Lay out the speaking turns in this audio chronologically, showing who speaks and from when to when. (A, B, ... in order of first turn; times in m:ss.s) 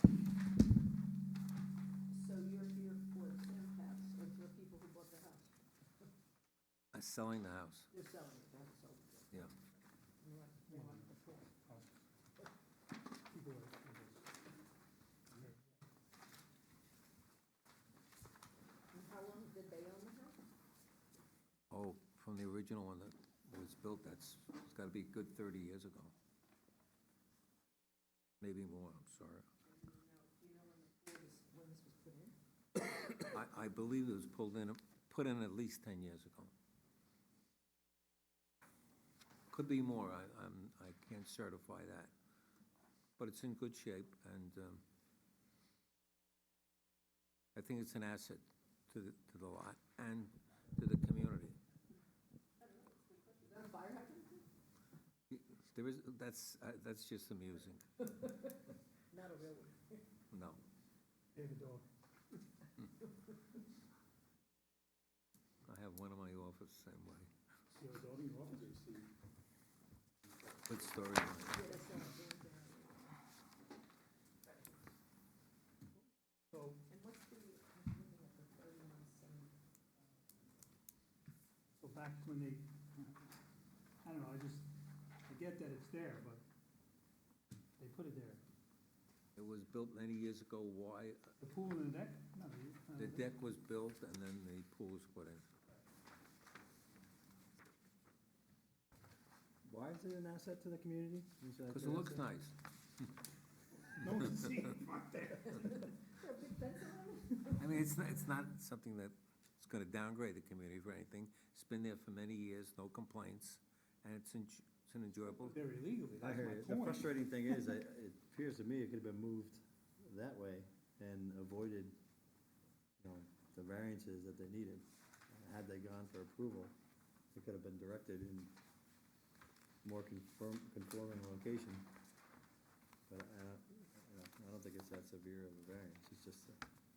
0:02.1-0:06.1 A
0:06.9-0:07.9 B
0:07.9-0:09.3 A
0:10.2-0:11.5 A
0:10.7-0:12.1 C
0:13.3-0:14.3 C
0:15.3-0:15.6 C
0:18.9-0:20.4 A
0:21.7-0:26.1 B
0:28.4-0:29.5 B
0:29.6-0:32.4 A
0:33.2-0:36.5 B
0:39.5-0:42.1 B
0:43.2-0:44.8 B
0:47.6-0:51.6 B
0:52.6-0:54.5 A
0:55.3-0:57.9 B
0:58.0-1:00.1 A
1:00.3-1:00.6 B
1:01.3-1:01.9 C
1:05.6-1:07.3 B
1:07.7-1:09.0 C
1:10.6-1:11.7 B
1:11.5-1:13.2 A
1:14.4-1:14.8 A
1:16.0-1:16.9 C
1:16.9-1:19.6 A
1:21.8-1:23.2 C
1:24.0-1:24.7 C
1:25.3-1:26.4 C
1:27.8-1:28.4 C
1:29.4-1:31.3 B
1:31.4-1:33.3 C
1:33.0-1:35.5 B
1:39.6-1:42.2 D
1:41.7-1:43.1 B
1:43.9-1:45.9 C
1:45.5-1:47.9 A
1:47.6-1:55.6 B
1:55.4-1:57.3 C
1:56.2-2:02.0 D
2:03.0-2:06.8 D
2:07.3-2:08.6 D
2:09.8-2:12.0 D
2:13.1-2:16.6 D